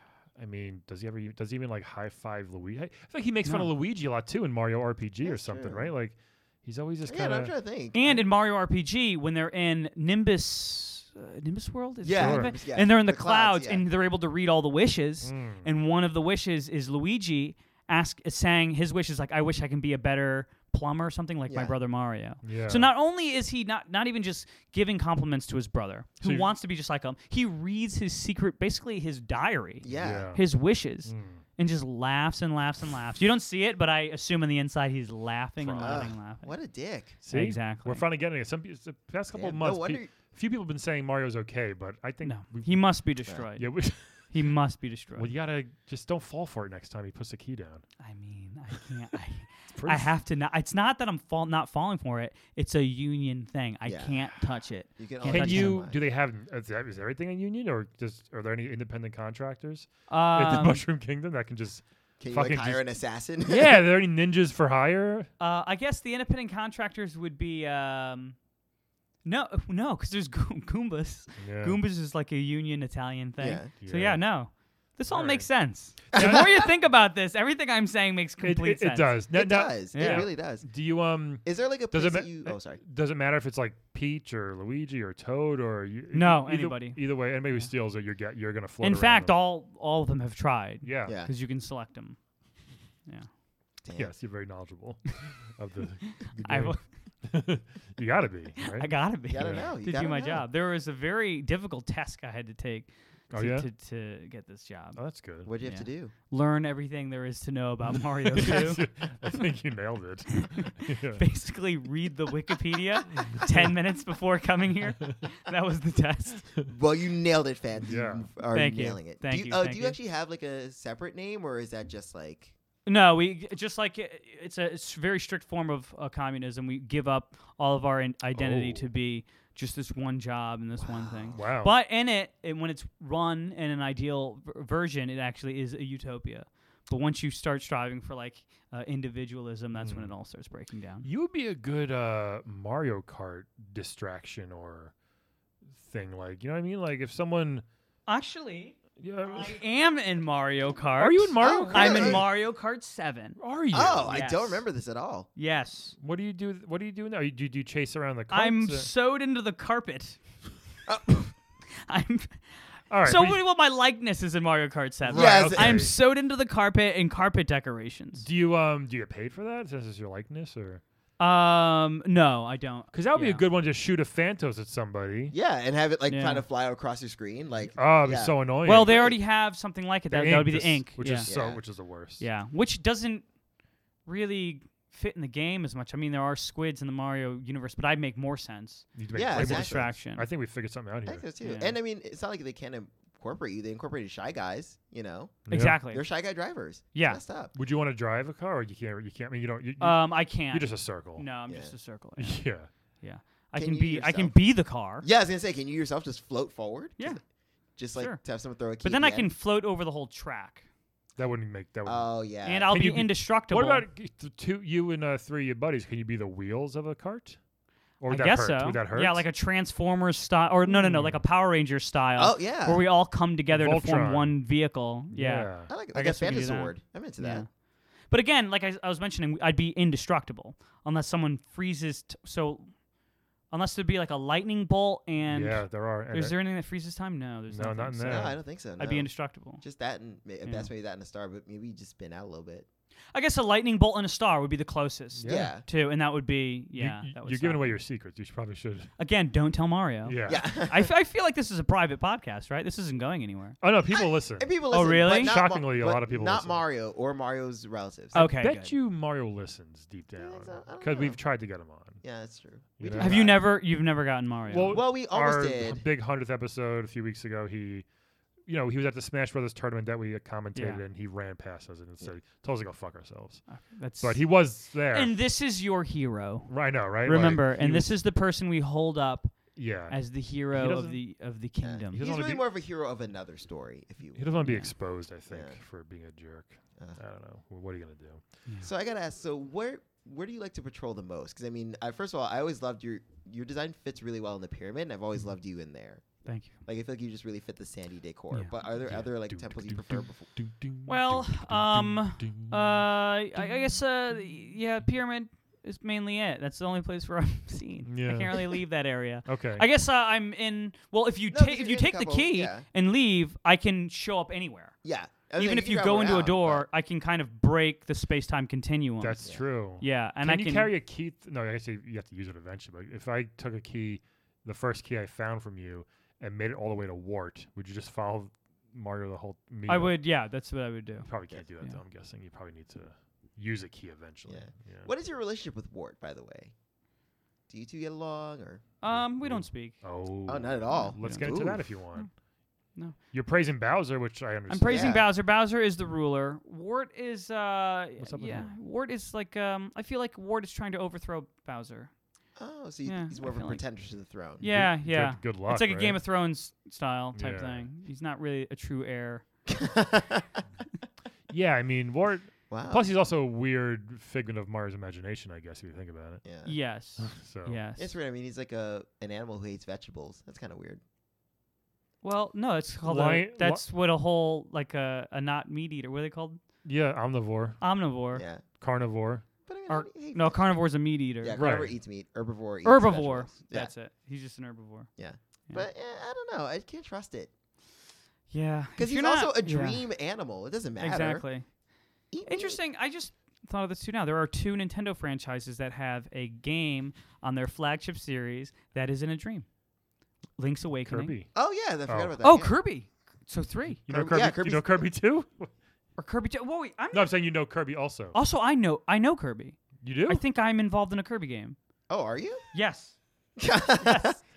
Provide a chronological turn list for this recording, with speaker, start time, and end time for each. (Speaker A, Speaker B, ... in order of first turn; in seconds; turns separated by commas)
Speaker A: 0.4-7.5, Speaker B: 5.2-5.9, Speaker B: 7.0-8.2, Speaker C: 7.9-36.5, Speaker B: 12.0-13.8, Speaker A: 12.2-12.5, Speaker A: 15.2-15.7, Speaker B: 21.5-21.8, Speaker A: 22.4-22.9, Speaker A: 26.2-26.5, Speaker B: 29.8-30.3, Speaker A: 29.9-31.4, Speaker A: 35.6-36.1, Speaker B: 35.8-37.2, Speaker A: 37.2-42.9, Speaker C: 37.3-38.0, Speaker B: 39.3-40.1, Speaker C: 42.2-45.3, Speaker A: 43.5-44.3, Speaker A: 45.1-47.8, Speaker C: 48.0-55.8, Speaker A: 49.7-50.1, Speaker B: 53.8-54.2, Speaker B: 55.0-56.0, Speaker A: 55.3-62.8, Speaker C: 60.1-60.8, Speaker B: 62.2-63.8, Speaker A: 63.4-65.3, Speaker C: 65.4-68.4, Speaker C: 69.2-79.2, Speaker A: 71.4-71.8, Speaker B: 73.4-73.7, Speaker A: 73.8-74.2, Speaker A: 75.1-75.5, Speaker A: 76.0-76.6, Speaker B: 76.1-76.7, Speaker A: 78.4-89.4, Speaker B: 79.3-80.7, Speaker C: 79.9-80.3, Speaker B: 81.4-82.8, Speaker C: 86.1-87.0, Speaker C: 88.8-92.2, Speaker A: 90.8-91.2, Speaker B: 91.0-91.3, Speaker B: 93.8-94.1, Speaker A: 93.9-99.7, Speaker C: 96.0-96.8, Speaker C: 98.7-105.0, Speaker B: 99.3-100.4, Speaker A: 103.3-103.7, Speaker A: 104.9-105.5, Speaker B: 105.4-106.1, Speaker C: 105.6-108.8, Speaker A: 108.2-111.2, Speaker C: 110.4-116.4, Speaker A: 113.1-113.7, Speaker B: 116.7-122.5, Speaker A: 117.8-118.3, Speaker C: 118.5-120.0, Speaker C: 122.9-141.1, Speaker A: 128.3-128.9, Speaker B: 130.8-131.4, Speaker A: 131.3-131.8, Speaker A: 139.8-140.1, Speaker A: 141.0-144.9, Speaker A: 145.8-147.6, Speaker C: 148.1-153.4, Speaker A: 149.0-149.6, Speaker A: 151.0-152.3, Speaker B: 151.4-152.2, Speaker A: 153.4-154.2, Speaker B: 153.7-155.3, Speaker C: 154.1-154.6, Speaker C: 155.4-155.9, Speaker A: 156.0-158.9, Speaker C: 158.3-160.2, Speaker B: 160.9-161.2, Speaker C: 161.8-162.4, Speaker A: 162.9-163.4, Speaker C: 163.0-168.2, Speaker A: 165.1-165.9, Speaker B: 165.1-165.9, Speaker A: 168.2-170.8, Speaker C: 171.2-173.4, Speaker A: 172.9-175.3, Speaker B: 175.3-179.2, Speaker C: 176.1-176.4, Speaker A: 177.7-179.0, Speaker C: 178.6-181.3, Speaker A: 180.1-182.2, Speaker B: 181.2-181.6, Speaker C: 182.2-183.3, Speaker C: 184.0-190.2, Speaker A: 188.9-191.2, Speaker B: 189.1-189.9, Speaker B: 191.1-197.5, Speaker C: 191.4-191.8, Speaker A: 195.5-195.8, Speaker C: 195.5-196.0, Speaker C: 196.9-197.2, Speaker A: 197.5-201.2, Speaker C: 199.8-202.4, Speaker B: 201.5-201.7, Speaker A: 202.2-202.7, Speaker C: 203.0-205.1, Speaker B: 203.6-204.4, Speaker B: 205.0-207.2, Speaker B: 207.8-209.3, Speaker C: 207.9-208.2, Speaker C: 208.8-210.7, Speaker A: 211.2-212.1, Speaker B: 211.8-212.7, Speaker C: 212.4-213.9, Speaker A: 212.7-217.4, Speaker A: 218.0-219.2, Speaker C: 218.1-227.5, Speaker A: 220.7-221.2, Speaker B: 222.2-222.8, Speaker A: 223.5-224.4, Speaker A: 225.1-225.7, Speaker B: 225.7-227.4, Speaker C: 228.1-232.7, Speaker C: 233.5-239.6, Speaker A: 235.3-236.4, Speaker A: 237.5-238.3, Speaker B: 238.0-242.7, Speaker C: 240.4-240.7, Speaker C: 243.1-247.8, Speaker A: 245.2-245.5, Speaker B: 245.2-245.6, Speaker A: 246.8-248.9, Speaker C: 249.0-253.6, Speaker A: 250.0-250.4, Speaker B: 250.2-250.9, Speaker A: 253.6-254.5, Speaker B: 253.9-258.2, Speaker C: 254.7-255.4, Speaker A: 255.1-256.6, Speaker A: 258.1-262.0, Speaker C: 258.1-258.8, Speaker B: 260.2-261.2, Speaker B: 262.0-263.4, Speaker A: 262.8-263.4, Speaker C: 263.0-264.8, Speaker A: 264.5-267.9, Speaker B: 264.7-265.8, Speaker A: 268.4-275.1, Speaker C: 270.5-270.8, Speaker C: 273.5-274.2, Speaker C: 274.9-279.4, Speaker A: 276.5-278.0, Speaker A: 279.6-281.0, Speaker C: 279.9-282.0, Speaker B: 281.6-284.3, Speaker A: 281.9-282.4, Speaker A: 284.1-288.2, Speaker C: 284.4-284.7, Speaker B: 285.3-285.6, Speaker B: 288.6-300.3, Speaker C: 296.2-296.5, Speaker A: 298.8-302.8, Speaker C: 300.9-314.8, Speaker A: 307.9-308.6, Speaker A: 309.2-309.6, Speaker B: 311.3-312.6, Speaker B: 314.8-316.6, Speaker C: 315.4-319.2, Speaker A: 319.0-330.0, Speaker C: 319.8-320.7, Speaker C: 329.7-331.1, Speaker A: 331.0-334.9, Speaker B: 334.3-336.5, Speaker B: 337.5-338.6, Speaker C: 338.8-339.8, Speaker A: 338.8-342.1, Speaker B: 340.3-341.6, Speaker C: 340.7-342.1, Speaker A: 343.1-345.0, Speaker C: 344.5-351.9, Speaker B: 344.7-345.1, Speaker A: 348.0-348.5, Speaker B: 352.4-354.4, Speaker C: 352.8-353.6, Speaker C: 354.4-359.2, Speaker A: 354.4-356.0, Speaker A: 357.1-357.6, Speaker B: 359.5-360.4, Speaker A: 361.3-366.2, Speaker B: 362.5-362.8, Speaker B: 366.2-366.5, Speaker C: 366.4-367.9, Speaker A: 367.0-367.6, Speaker B: 367.8-370.8, Speaker C: 372.0-376.4, Speaker A: 372.8-373.6, Speaker A: 376.6-377.6, Speaker C: 377.6-378.2, Speaker B: 378.1-378.4, Speaker A: 378.6-379.2, Speaker B: 379.5-380.5, Speaker C: 379.7-381.4, Speaker B: 381.2-383.7, Speaker A: 381.3-381.8, Speaker C: 382.6-384.9, Speaker B: 385.0-387.3, Speaker C: 388.3-389.8, Speaker B: 388.8-391.2, Speaker C: 390.8-391.5, Speaker B: 392.1-392.6, Speaker C: 392.2-399.5, Speaker C: 400.4-401.1, Speaker A: 400.9-401.3, Speaker B: 401.3-402.6, Speaker A: 401.9-402.1, Speaker C: 402.2-403.8, Speaker A: 403.9-405.5, Speaker B: 403.9-404.8, Speaker C: 406.0-407.1, Speaker A: 406.9-408.1, Speaker C: 408.1-411.6, Speaker A: 409.8-410.2, Speaker B: 411.9-412.4, Speaker C: 412.5-412.9, Speaker B: 413.4-414.2, Speaker C: 413.8-414.2